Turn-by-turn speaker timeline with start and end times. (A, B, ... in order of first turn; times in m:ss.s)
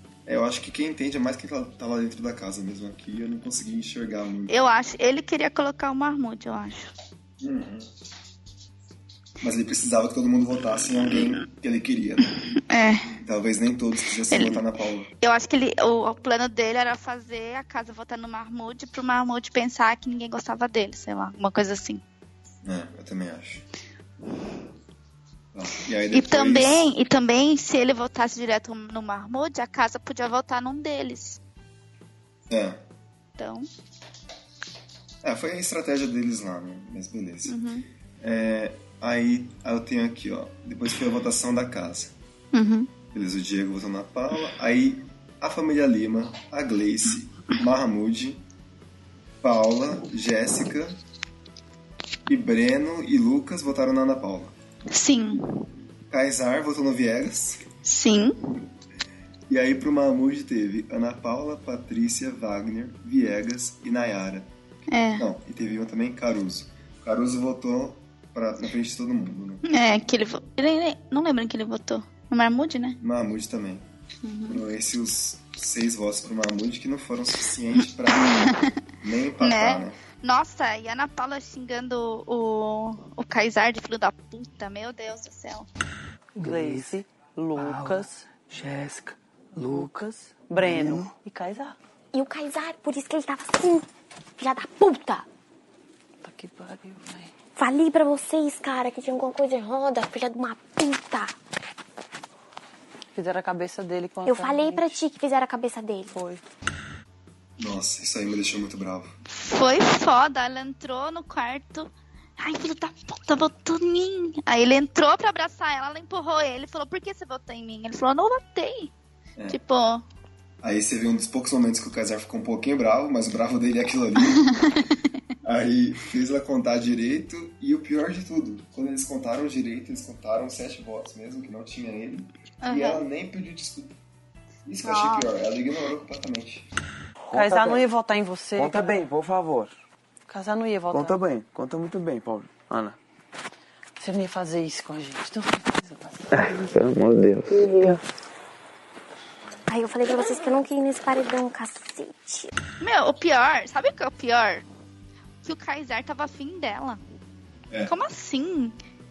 0:00.2-0:04.5 A
0:04.5-0:06.9 B
0:07.4-0:07.9 A
0:09.4-0:12.3 A
0:12.5-0:13.1 B
0:13.2-0:15.1 A
0:14.3-0:22.0 B
0:22.6-0:23.6 A
0:25.5-0:26.8 A
0:26.1-0:31.4 B
0:32.5-0:32.8 A
0:33.4-0:33.7 B
0:35.2-0:37.6 A
0:37.4-0:37.8 B
0:38.2-0:42.1 A
0:42.5-0:42.9 B
0:43.1-0:48.4 A
0:49.4-0:51.0 A
0:52.3-0:54.5 A
0:54.9-0:55.6 B
0:56.1-0:57.6 A
0:57.8-0:58.4 B
0:59.5-1:04.5 A
1:04.9-1:05.3 B
1:05.2-1:09.6 A
1:09.6-1:13.0 B
1:13.0-1:13.8 A
1:14.2-1:14.6 B
1:14.5-1:20.0 A
1:18.1-1:18.7 B
1:19.4-1:25.7 B
1:26.4-1:27.0 C
1:26.4-1:28.3 D
1:27.6-1:31.1 C
1:29.6-1:31.8 D
1:32.1-1:33.8 E
1:34.4-1:35.2 E
1:36.2-1:37.3 D
1:37.6-1:41.3 E
1:43.1-1:45.0 D
1:44.2-1:46.2 E
1:46.1-1:46.4 D
1:47.6-1:49.1 A
1:49.3-1:58.9 B
1:59.5-2:00.0 B
2:00.6-2:04.5 A
2:04.2-2:05.0 B
2:05.4-2:13.9 A
2:12.6-2:13.0 B
2:14.6-2:16.6 A
2:14.8-2:15.3 B
2:17.3-2:17.8 C
2:17.3-2:19.1 D
2:18.6-2:19.7 C
2:20.3-2:21.2 D
2:20.9-2:23.0 C
2:24.0-2:26.4 D
2:26.3-2:28.0 C
2:29.7-2:32.5 E
2:32.8-2:34.6 B
2:35.4-2:37.0 B
2:37.9-2:38.8 B